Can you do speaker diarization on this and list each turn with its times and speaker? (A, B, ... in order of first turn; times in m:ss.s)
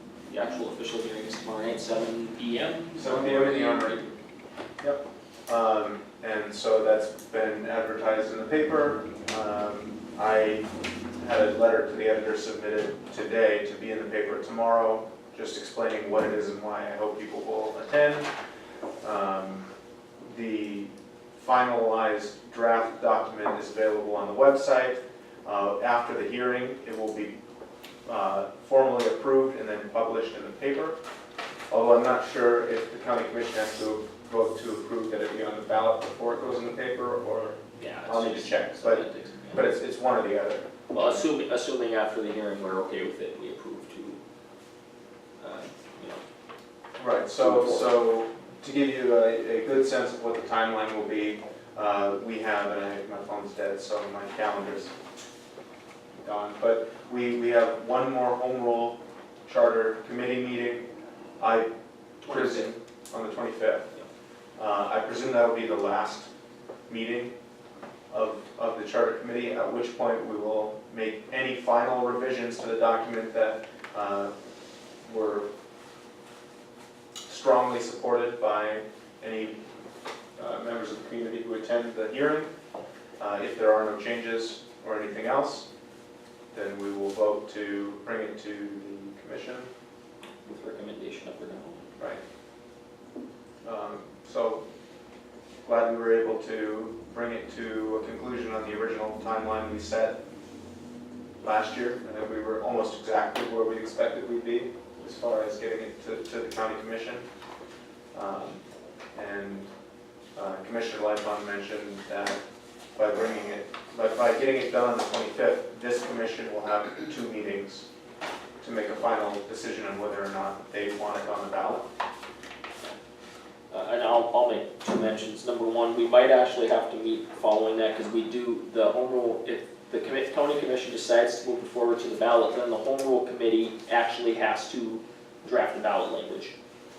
0:00.3-0:04.2 A
0:03.0-0:04.0 B
0:04.8-0:10.7 B
0:11.2-0:18.3 B
0:19.0-0:19.7 B
0:20.2-0:27.3 B
0:28.0-0:31.0 B
0:31.7-0:41.2 B
0:37.8-0:39.7 A
0:40.9-0:44.2 A
0:45.4-0:46.2 A
0:47.0-0:54.9 B
0:47.3-0:47.9 A
0:56.2-1:00.9 B
1:01.4-1:01.7 B
1:02.2-1:02.7 A
1:02.2-1:03.9 B
1:04.6-1:06.3 B
1:06.9-1:07.3 B
1:08.1-1:14.3 B
1:15.0-1:15.5 B
1:17.3-1:19.6 B
1:20.4-1:22.5 B
1:23.2-1:25.7 B
1:26.5-1:29.7 B
1:30.4-1:31.8 A
1:33.6-1:34.6 B
1:35.6-1:40.2 B
1:41.4-1:47.2 B
1:48.1-1:48.6 B
1:49.1-1:49.7 B
1:50.3-1:52.4 B
1:53.0-1:57.8 B
1:58.6-2:01.8 B
2:03.7-2:16.5 A